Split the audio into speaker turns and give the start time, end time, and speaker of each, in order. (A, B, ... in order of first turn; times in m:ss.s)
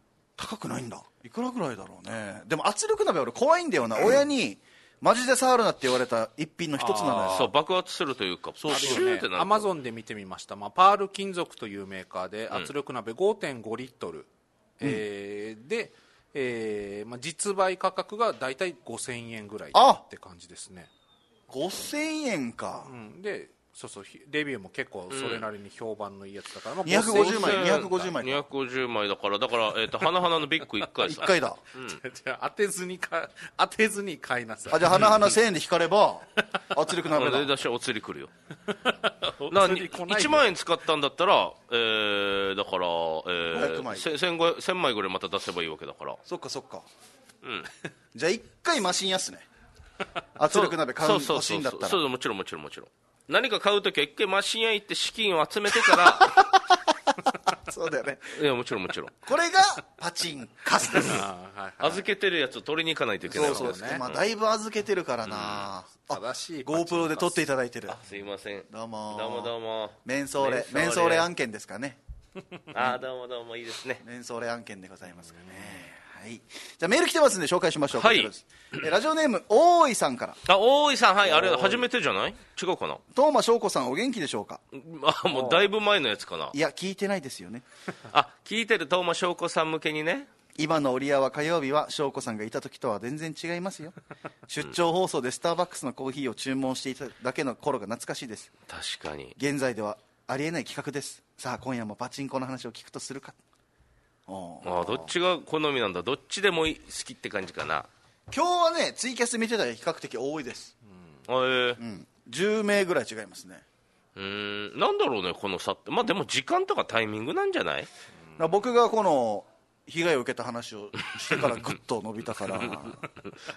0:00.4-0:07.5 A
0:06.8-0:07.5 B
0:07.2-0:09.7 C
0:08.6-0:09.1 A
0:08.7-0:14.3 B
0:14.8-0:20.9 B
0:19.7-0:20.0 A
0:21.5-0:22.9 A
0:22.8-0:27.8 B
0:25.1-0:25.5 C
0:26.8-0:28.4 A
0:26.9-0:32.0 C
0:31.0-0:31.6 A
0:31.9-0:35.1 B
0:34.7-0:37.6 A
0:37.1-0:38.3 C
0:38.9-0:40.5 B
0:39.5-0:46.2 C
0:43.5-0:44.1 A
0:46.2-0:46.9 A
0:47.4-0:47.7 C
0:48.1-0:49.5 A
0:50.4-0:52.0 A
0:50.5-0:56.5 C
0:55.9-0:56.8 A
0:57.5-0:58.4 A
0:58.3-0:59.1 C
0:59.2-1:01.2 A
1:01.0-1:02.0 B
1:01.8-1:04.2 C
1:03.3-1:08.0 A
1:03.3-1:04.0 B
1:05.2-1:05.7 C
1:06.1-1:07.4 B
1:07.9-1:11.3 C
1:08.7-1:09.5 A
1:10.0-1:12.0 A
1:12.7-1:14.0 C
1:14.0-1:20.4 A
1:17.9-1:18.3 C
1:20.5-1:23.0 C
1:21.2-1:21.8 A
1:23.1-1:24.6 A
1:24.7-1:26.6 C
1:25.3-1:25.7 B
1:26.5-1:27.6 A
1:28.1-1:30.3 C
1:30.6-1:34.0 A
1:34.5-1:38.5 A
1:38.7-1:39.4 C
1:39.4-1:43.4 A
1:44.3-1:45.0 A
1:44.6-1:47.9 C
1:48.3-1:50.7 A
1:51.3-1:51.8 C
1:51.8-1:53.6 A
1:54.2-1:57.9 C
1:58.4-2:03.0 A